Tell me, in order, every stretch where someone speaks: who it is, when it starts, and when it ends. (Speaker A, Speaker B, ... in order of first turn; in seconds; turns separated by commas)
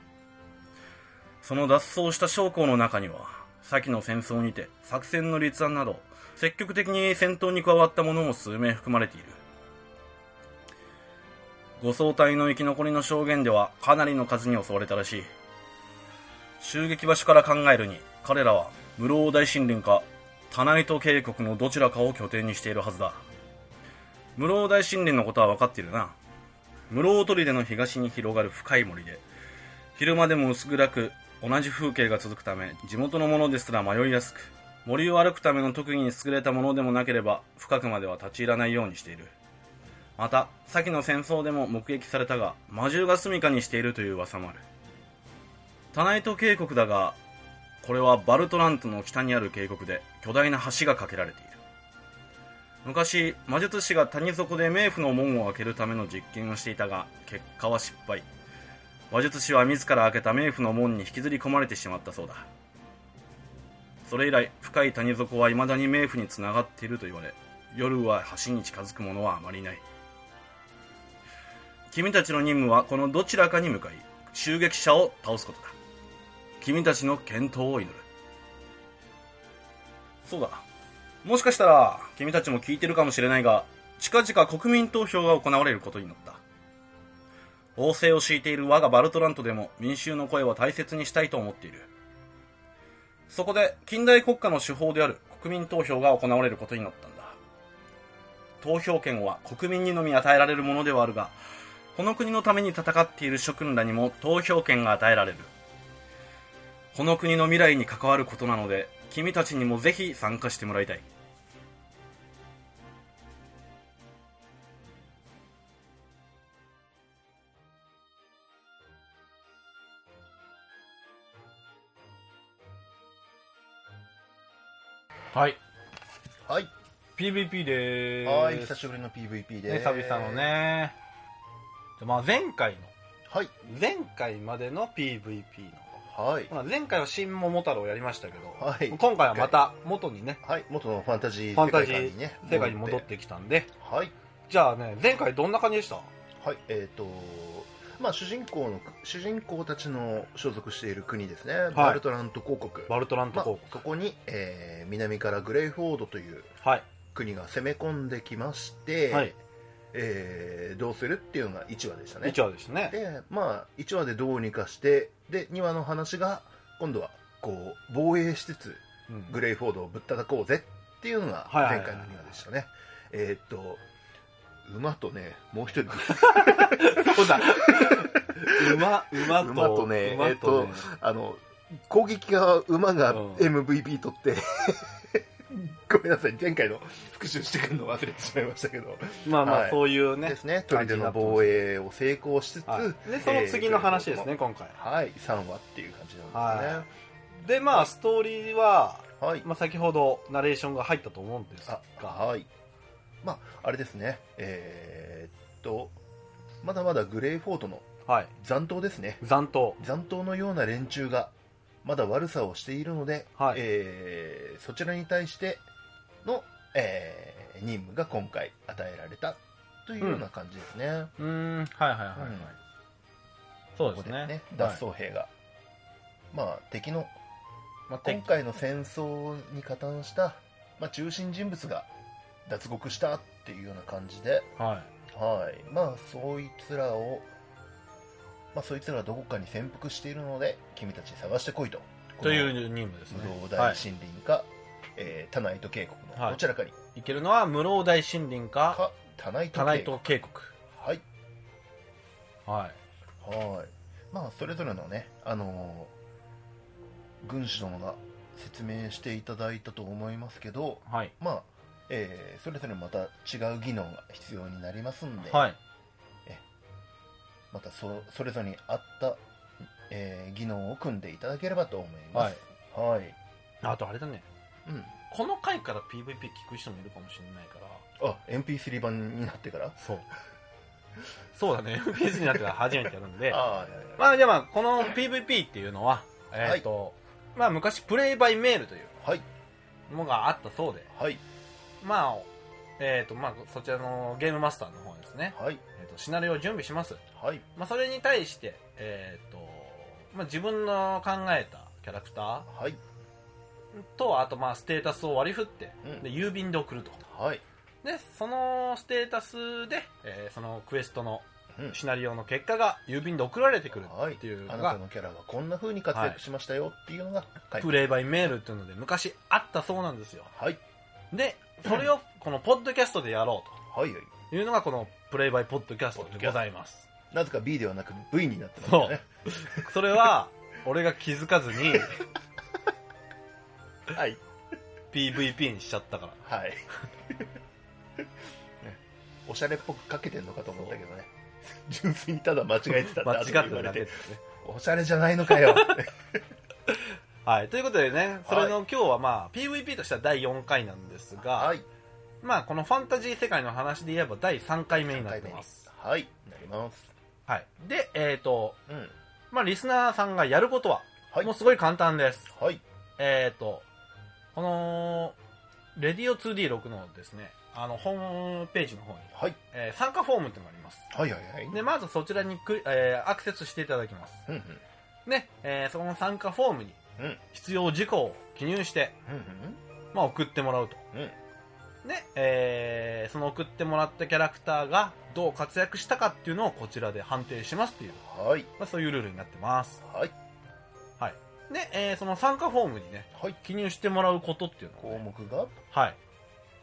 Speaker A: 1.4-9.4, Speaker A: 11.8-15.3, Speaker A: 16.6-23.2, Speaker A: 24.4-26.1, Speaker A: 26.9-29.2, Speaker A: 29.9-39.3, Speaker A: 40.2-44.6, Speaker A: 45.9-47.2, Speaker A: 47.8-51.6, Speaker A: 52.8-58.2, Speaker A: 59.1-62.5, Speaker A: 64.0-69.8, Speaker A: 71.9-75.7, Speaker A: 76.6-78.0, Speaker A: 80.2-80.6, Speaker A: 81.2-86.4, Speaker A: 87.8-91.9, Speaker A: 93.3-97.4, Speaker A: 98.6-101.3, Speaker A: 101.9-105.5, Speaker A: 106.9-111.0, Speaker B: 125.3-125.6, Speaker C: 126.4-126.7, Speaker B: 127.2-128.7, Speaker C: 128.2-130.5, Speaker B: 129.7-131.0, Speaker B: 132.0-132.9, Speaker C: 133.3-133.5, Speaker B: 133.6-140.4, Speaker C: 136.1-136.5, Speaker C: 138.5-139.6, Speaker C: 140.4-143.1, Speaker B: 141.5-143.7, Speaker C: 143.8-144.1, Speaker B: 144.5-146.1, Speaker C: 146.4-156.5, Speaker B: 151.7-152.0, Speaker B: 152.9-153.8, Speaker C: 157.1-159.3, Speaker C: 159.9-173.8, Speaker B: 162.2-163.0, Speaker B: 169.1-169.4, Speaker B: 171.5-172.3, Speaker C: 174.6-196.9, Speaker B: 176.1-180.9, Speaker B: 183.1-183.5, Speaker B: 189.2-191.6, Speaker B: 192.7-194.8, Speaker B: 196.3-196.9, Speaker B: 197.4-202.2, Speaker C: 199.2-199.4, Speaker C: 201.7-202.5, Speaker C: 203.2-206.0, Speaker C: 206.6-209.2, Speaker B: 208.1-208.3, Speaker B: 209.2-209.8, Speaker C: 209.8-215.7, Speaker C: 216.2-221.1, Speaker B: 221.2-222.6, Speaker C: 222.1-222.5, Speaker B: 223.8-224.8, Speaker C: 223.9-225.3, Speaker C: 226.3-227.1, Speaker B: 227.9-228.2, Speaker C: 228.0-231.9, Speaker C: 232.4-234.5, Speaker B: 234.6-234.9, Speaker C: 235.1-237.3, Speaker C: 238.5-246.8, Speaker B: 242.2-243.8, Speaker B: 246.2-246.4, Speaker B: 246.9-248.8, Speaker C: 248.7-250.1, Speaker B: 249.5-250.5, Speaker C: 250.7-251.0, Speaker B: 252.5-252.8, Speaker C: 253.2-255.9, Speaker C: 257.2-265.5, Speaker B: 260.9-261.1, Speaker B: 265.2-265.6, Speaker C: 267.5-269.2, Speaker C: 269.9-273.2, Speaker B: 272.1-272.4, Speaker B: 273.6-274.3, Speaker C: 274.6-274.9, Speaker B: 275.1-277.9, Speaker C: 278.0-279.8, Speaker B: 279.8-280.1, Speaker B: 281.3-283.4, Speaker C: 283.3-284.0, Speaker B: 284.0-288.9, Speaker C: 289.0-289.2, Speaker B: 289.9-290.9, Speaker C: 290.9-291.2, Speaker B: 291.8-292.3, Speaker B: 292.8-297.0, Speaker C: 295.3-295.6, Speaker C: 297.1-297.4, Speaker B: 297.6-302.5, Speaker C: 302.5-302.8, Speaker B: 303.7-307.0, Speaker C: 305.8-306.1, Speaker C: 307.0-307.4, Speaker B: 307.8-314.8, Speaker C: 313.8-317.9, Speaker B: 315.9-316.2, Speaker B: 317.6-320.3, Speaker C: 320.3-320.6, Speaker B: 321.1-323.6, Speaker C: 323.7-324.1, Speaker B: 324.3-326.9, Speaker C: 325.9-326.4, Speaker C: 327.1-329.0, Speaker B: 328.6-332.1, Speaker C: 333.9-334.2, Speaker B: 334.9-336.2, Speaker C: 336.2-337.3, Speaker C: 338.6-346.2, Speaker B: 342.9-344.2, Speaker B: 345.4-345.7, Speaker B: 346.7-351.5, Speaker C: 348.2-348.6, Speaker C: 351.2-351.6, Speaker B: 352.2-355.7, Speaker C: 354.7-356.9, Speaker B: 357.3-358.6, Speaker C: 358.7-358.9, Speaker B: 359.3-362.3, Speaker C: 362.3-362.6, Speaker B: 363.0-363.6, Speaker B: 364.3-365.1, Speaker B: 365.8-370.9, Speaker C: 369.1-369.4, Speaker C: 370.9-371.6, Speaker B: 371.5-374.3, Speaker C: 374.3-374.6, Speaker B: 375.1-376.8, Speaker B: 377.3-378.9, Speaker C: 379.1-379.6, Speaker B: 379.9-380.8, Speaker B: 381.8-388.0, Speaker C: 388.0-388.5, Speaker B: 388.6-389.8, Speaker C: 389.8-390.1, Speaker B: 391.0-395.0, Speaker C: 394.8-395.6, Speaker B: 395.7-396.0